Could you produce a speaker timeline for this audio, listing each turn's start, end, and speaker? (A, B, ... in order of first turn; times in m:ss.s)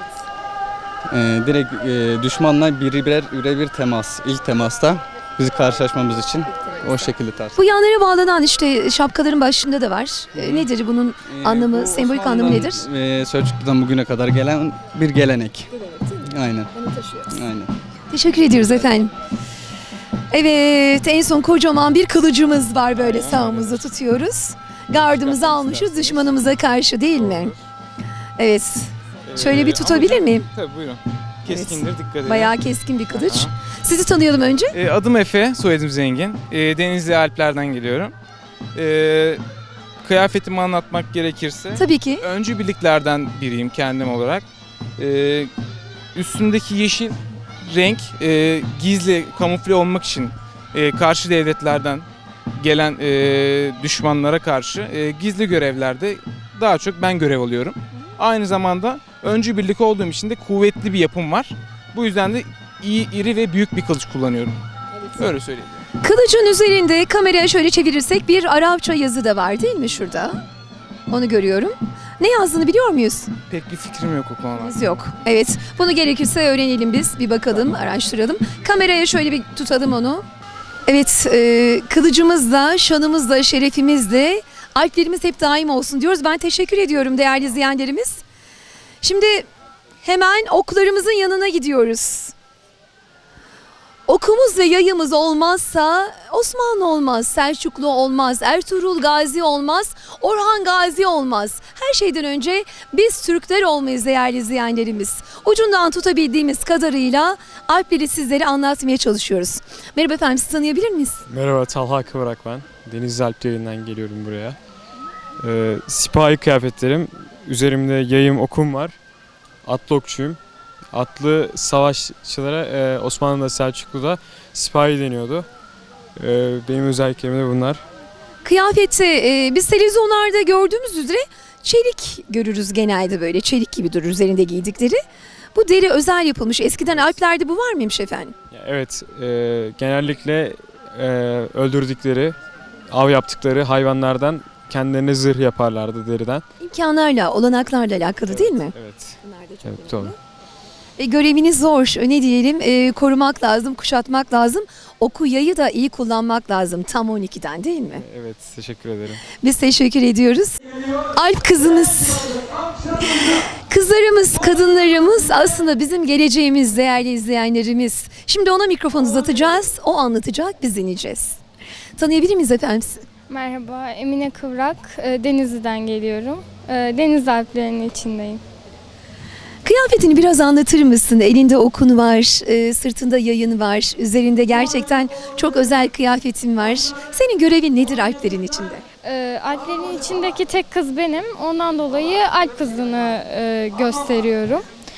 0:01.1-0:07.6 A
0:07.6-0:12.8 B
0:10.3-0:10.7 A
0:11.2-0:17.7 A
0:18.1-0:19.1 B
0:20.3-0:27.5 B
0:22.9-0:23.8 C
0:25.0-0:26.5 C
0:27.1-0:27.6 C
0:28.4-0:30.5 B
0:29.3-0:32.6 C
0:31.5-0:34.8 B
0:33.1-0:33.5 C
0:34.7-0:38.1 C
0:38.7-0:39.4 C
0:40.0-0:44.4 C
0:41.7-0:42.2 B
0:45.0-0:45.5 C
0:46.1-1:04.6 C
1:05.2-1:05.8 C
1:06.0-1:10.4 B
1:11.1-1:13.3 B
1:13.5-1:14.8 C
1:14.6-1:20.2 B
1:20.8-1:28.2 B
1:29.0-1:29.4 B
1:30.0-1:32.3 B
1:34.1-1:51.2 B
1:51.3-1:54.6 D
1:55.4-1:59.0 D
1:59.6-2:00.4 D
2:00.9-2:05.5 D
2:06.2-2:07.8 D
2:08.4-2:15.0 B
2:15.5-2:18.3 B
2:18.5-2:22.4 D
2:22.9-2:26.4 D
2:26.6-2:28.7 B
2:28.3-2:30.1 D
2:31.0-2:38.0 B
2:38.0-2:39.2 D
2:39.3-2:40.6 B
2:41.1-2:42.4 B
2:43.0-2:51.4 B
2:52.0-2:53.0 B
2:53.3-2:58.4 E
2:59.6-3:08.8 B
3:09.0-3:14.6 E